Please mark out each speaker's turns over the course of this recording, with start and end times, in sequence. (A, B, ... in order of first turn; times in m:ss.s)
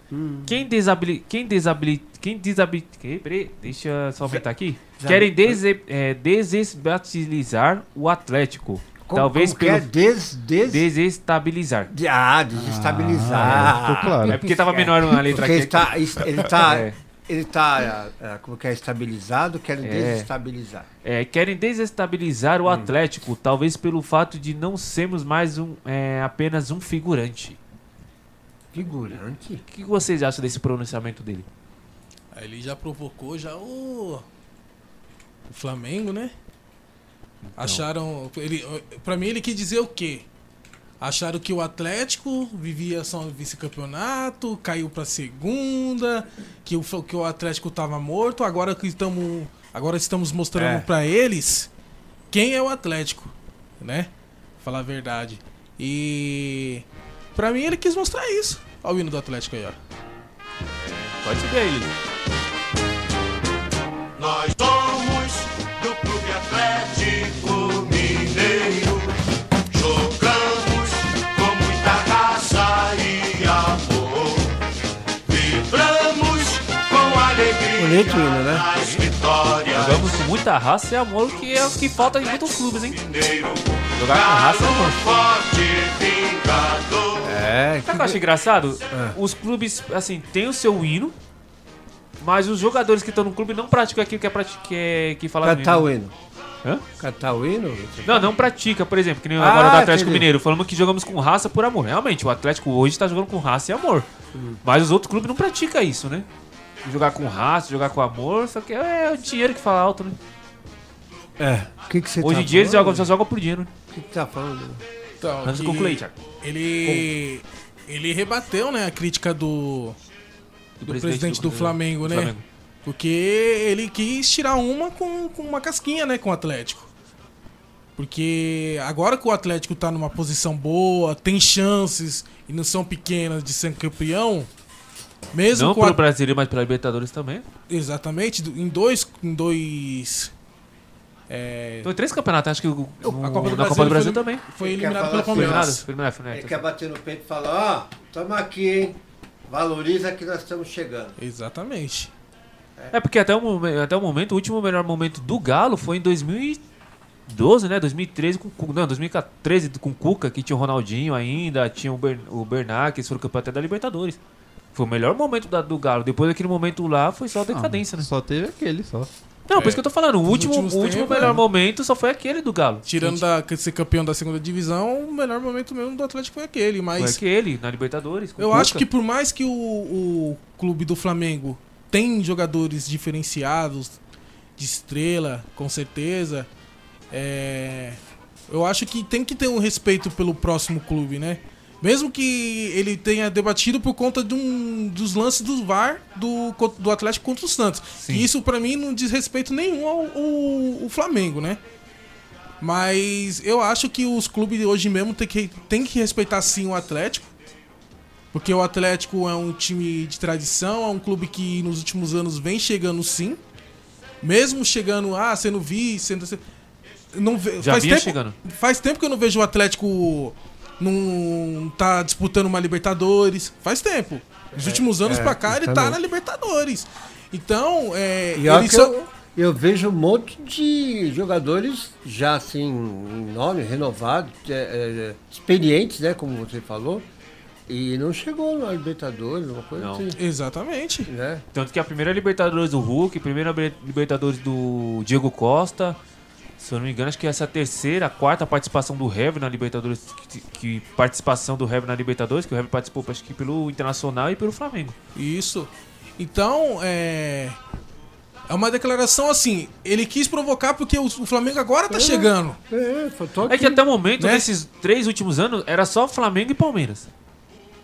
0:00.1-0:00.6 A
0:00.5-0:09.9 B
0:05.0-0:05.6 A
0:09.1-0:10.9 A
0:10.7-0:11.9 B
0:11.9-0:20.9 A
0:12.5-0:14.4 C
0:14.3-0:17.0 B
0:19.8-0:20.3 B
0:21.0-0:27.6 B
0:22.7-0:22.9 A
0:28.7-0:29.6 A
0:29.7-0:31.5 B
0:32.3-0:34.2 D
0:35.5-0:36.3 D
0:37.4-0:37.8 B
0:37.6-0:40.2 D
0:41.0-0:51.7 D
0:50.6-0:50.9 A
0:52.3-0:54.1 D
0:54.6-0:59.8 D
1:00.6-1:01.9 B
1:04.2-1:09.1 E
1:09.7-1:14.5 E
1:15.3-1:20.2 E
1:17.8-1:18.7 A
1:18.8-1:19.1 B
1:19.7-1:23.0 B
1:22.9-1:27.4 E
1:24.0-1:25.0 B
1:27.2-1:28.2 A
1:27.9-1:31.2 B
1:28.9-1:29.2 A
1:32.2-1:35.9 B
1:35.4-1:36.1 A
1:37.0-1:38.3 A
1:38.0-1:44.1 B
1:39.4-1:40.3 A
1:44.3-1:44.6 A
1:44.6-1:46.3 B
1:46.8-1:50.2 B
1:51.4-1:53.1 A
1:52.2-1:53.7 B
1:53.9-1:54.8 A
1:55.2-2:00.0 D
1:55.4-1:56.1 B
2:00.8-2:02.4 B
2:00.8-2:06.9 D
2:08.0-2:14.5 D
2:15.3-2:16.0 D
2:15.5-2:17.5 B
2:17.7-2:20.3 D
2:21.3-2:21.9 D
2:21.8-2:24.5 B
2:23.0-2:25.8 D
2:24.6-2:31.1 A
2:25.3-2:26.6 B
2:31.2-2:32.1 D
2:32.9-2:36.6 B
2:37.3-2:44.2 B
2:44.7-2:48.1 B
2:47.5-2:49.1 C
2:49.5-2:53.2 B
2:49.5-2:51.4 D
2:52.9-2:57.2 D
2:57.0-2:58.8 B
2:58.4-3:04.0 D
3:04.6-3:06.5 D
3:07.1-3:21.6 D
3:18.0-3:18.3 B
3:22.6-3:27.3 D
3:28.3-3:33.4 D
3:34.2-3:36.4 D
3:37.1-3:48.9 D
3:37.6-3:38.4 B
3:44.6-3:46.0 A
3:48.4-3:57.1 A
3:57.7-4:00.2 A
3:59.8-4:00.1 B
4:00.2-4:01.1 D
4:01.1-4:01.4 A
4:01.5-4:06.0 B
4:06.6-4:15.0 B
4:15.2-4:17.6 D
4:18.5-4:22.6 D
4:21.9-4:23.8 A
4:23.5-4:27.1 B
4:24.2-4:24.5 D